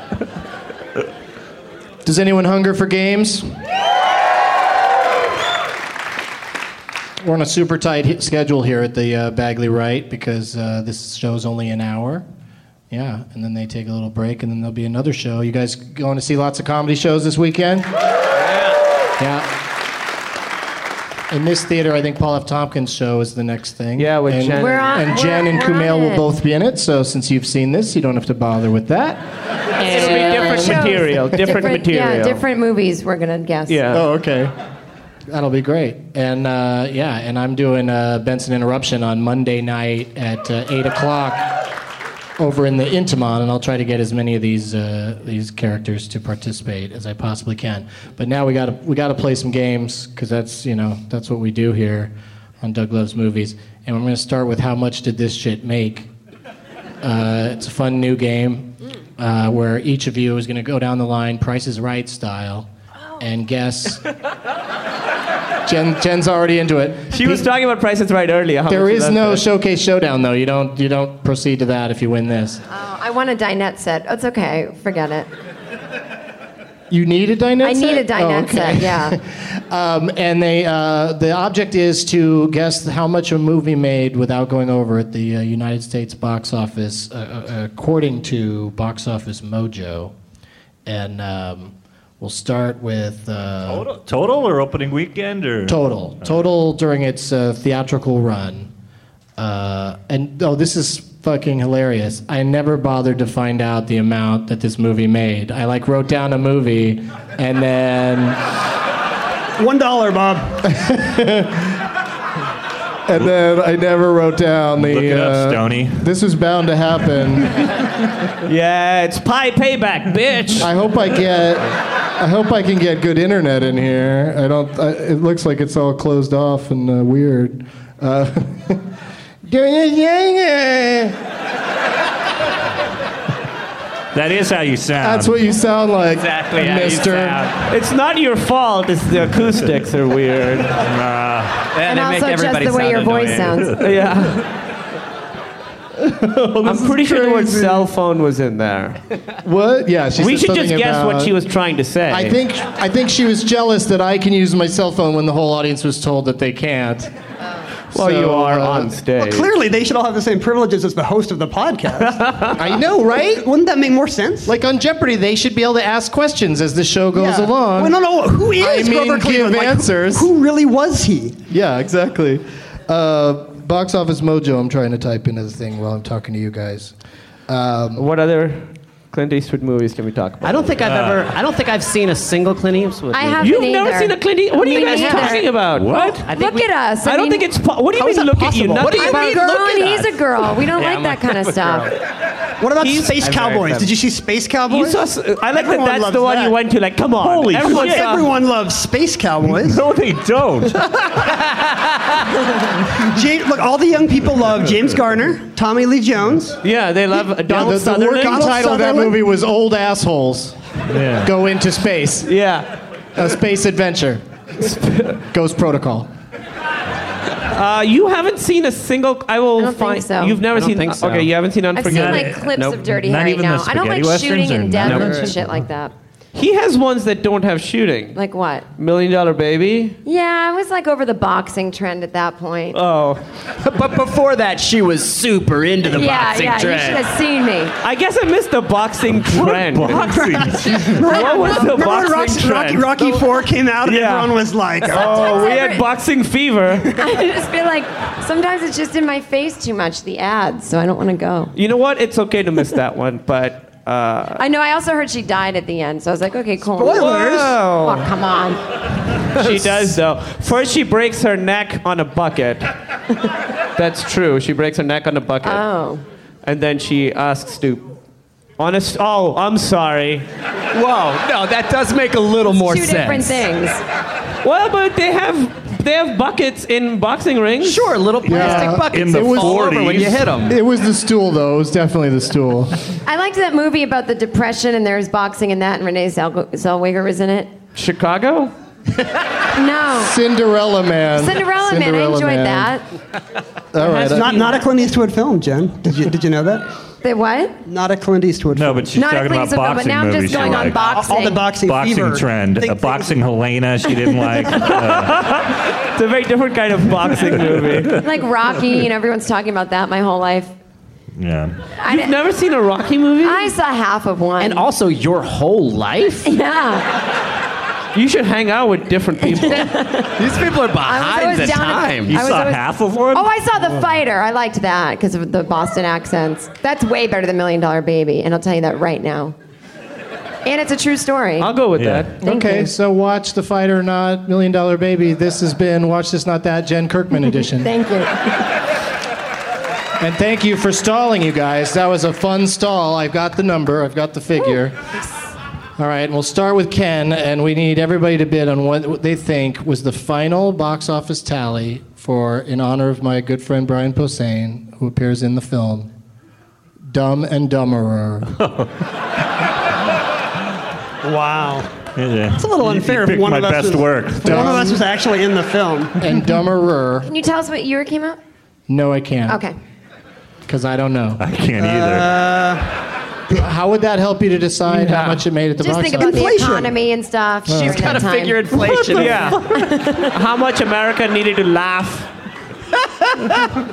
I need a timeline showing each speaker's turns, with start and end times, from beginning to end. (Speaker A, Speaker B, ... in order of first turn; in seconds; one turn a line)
Speaker A: 2.0-3.6
Speaker A: 7.2-12.3
Speaker A: 12.9-17.9
Speaker A: 19.2-19.5
Speaker A: 21.3-29.2
Speaker B: 24.0-25.0
Speaker C: 24.6-26.3
Speaker B: 29.8-32.4
Speaker C: 29.8-33.8
Speaker A: 29.8-30.9
Speaker B: 33.7-34.0
Speaker A: 33.9-34.5
Speaker A: 35.3-41.5
Speaker A: 42.4-56.1
Speaker A: 57.0-62.7
Speaker A: 63.2-64.0
Speaker A: 65.7-67.5
Speaker B: 67.1-69.4
Speaker A: 68.7-72.6
Speaker C: 72.7-75.3
Speaker A: 76.9-90.2
Speaker C: 77.6-79.2
Speaker A: 90.9-93.9
Speaker D: 93.7-96.3
Speaker A: 95.7-98.7
Speaker A: 99.4-108.4
Speaker E: 109.6-110.6
Speaker A: 110.7-111.8
Speaker A: 113.1-117.7
Speaker D: 114.8-116.1
Speaker B: 118.5-120.7
Speaker A: 120.6-128.9
Speaker A: 129.4-131.2
Speaker D: 134.1-135.3
Speaker A: 135.0-137.5
Speaker F: 136.1-137.6
Speaker B: 137.7-140.8
Speaker D: 140.8-141.7
Speaker F: 141.7-143.7
Speaker C: 141.8-143.8
Speaker B: 143.8-144.5
Speaker A: 146.1-147.9
Speaker B: 146.6-149.0
Speaker A: 149.4-151.4
Speaker B: 150.2-152.4
Speaker A: 152.1-157.1
Speaker A: 157.9-159.0
Speaker B: 157.9-159.5
Speaker E: 159.2-162.7
Speaker B: 162.1-162.5
Speaker A: 162.6-163.5
Speaker E: 163.2-164.5
Speaker A: 164.4-170.3
Speaker E: 167.1-171.4
Speaker A: 171.5-176.9
Speaker A: 177.5-178.1
Speaker B: 178.0-180.7
Speaker F: 180.4-183.6
Speaker D: 180.8-181.3
Speaker C: 183.1-185.5
Speaker B: 183.4-186.2
Speaker F: 184.6-185.5
Speaker D: 185.7-186.2
Speaker F: 186.2-186.7
Speaker C: 186.3-187.5
Speaker B: 187.0-189.3
Speaker F: 187.9-191.9
Speaker C: 188.8-191.9
Speaker E: 192.6-196.6
Speaker B: 192.8-193.2
Speaker F: 193.2-193.9
Speaker B: 194.7-198.3
Speaker D: 197.2-198.3
Speaker E: 197.6-199.8
Speaker D: 199.6-200.9
Speaker E: 203.1-206.6
Speaker B: 206.6-208.5
Speaker A: 207.5-210.6
Speaker E: 207.5-209.2
Speaker B: 210.9-211.3
Speaker A: 211.2-212.3
Speaker B: 212.2-212.8
Speaker A: 213.2-214.2
Speaker B: 214.6-215.2
Speaker A: 215.3-216.1
Speaker B: 217.5-222.4
Speaker C: 219.6-220.4
Speaker F: 220.5-221.3
Speaker C: 221.7-225.9
Speaker D: 221.8-225.5
Speaker F: 222.5-222.8
Speaker F: 224.8-225.3
Speaker B: 226.3-228.2
Speaker C: 228.1-228.7
Speaker B: 228.8-230.0
Speaker C: 230.1-232.8
Speaker B: 232.7-233.2
Speaker F: 233.6-237.1
Speaker C: 235.9-237.7
Speaker B: 237.8-243.2
Speaker D: 239.2-241.0
Speaker E: 240.1-245.5
Speaker C: 241.1-241.7
Speaker B: 243.8-247.0
Speaker C: 244.9-245.9
Speaker C: 246.9-251.5
Speaker B: 251.6-254.4
Speaker C: 254.4-258.6
Speaker E: 256.8-257.6
Speaker B: 256.9-258.1
Speaker B: 259.3-262.7
Speaker B: 263.8-265.6
Speaker C: 265.4-266.0
Speaker B: 266.4-267.9
Speaker B: 268.6-270.3
Speaker F: 270.7-273.5
Speaker C: 272.5-273.8
Speaker B: 274.4-278.0
Speaker F: 277.6-280.6
Speaker D: 278.2-280.3
Speaker A: 278.3-282.9
Speaker C: 283.1-287.5
Speaker B: 287.8-288.5
Speaker C: 289.5-290.1
Speaker A: 290.0-292.7
Speaker C: 291.2-292.8
Speaker A: 293.7-294.4
Speaker B: 293.8-294.6
Speaker E: 294.0-296.6
Speaker C: 297.0-297.6
Speaker E: 297.7-298.9
Speaker D: 298.5-305.3
Speaker C: 298.9-301.4
Speaker E: 300.6-303.1
Speaker B: 304.5-308.1
Speaker C: 307.9-310.5
Speaker D: 311.2-311.6
Speaker C: 311.8-312.1
Speaker B: 311.9-313.5
Speaker C: 313.2-314.6
Speaker F: 314.4-316.3
Speaker C: 316.2-316.9
Speaker B: 317.9-319.8
Speaker C: 319.3-320.2
Speaker F: 320.2-322.2
Speaker C: 320.8-329.4
Speaker D: 322.1-323.3
Speaker C: 330.4-331.5
Speaker B: 331.4-332.3
Speaker D: 331.8-332.1
Speaker A: 332.2-337.7
Speaker C: 332.2-332.7
Speaker C: 337.5-338.5
Speaker A: 340.0-344.8
Speaker A: 345.8-355.9
Speaker A: 356.8-358.3
Speaker D: 358.4-358.7
Speaker E: 361.0-361.7
Speaker D: 362.0-364.6
Speaker E: 362.3-366.1
Speaker A: 364.2-364.8
Speaker A: 366.0-367.1
Speaker C: 367.1-368.2
Speaker A: 368.7-369.4
Speaker C: 369.3-369.6
Speaker A: 370.5-371.2
Speaker D: 371.2-372.2
Speaker E: 371.6-372.8
Speaker A: 373.3-376.4
Speaker B: 374.7-375.2
Speaker C: 375.6-378.6
Speaker E: 376.0-376.8
Speaker A: 377.5-378.0
Speaker F: 377.5-379.3
Speaker B: 378.9-379.4
Speaker C: 379.3-380.1
Speaker B: 380.1-382.1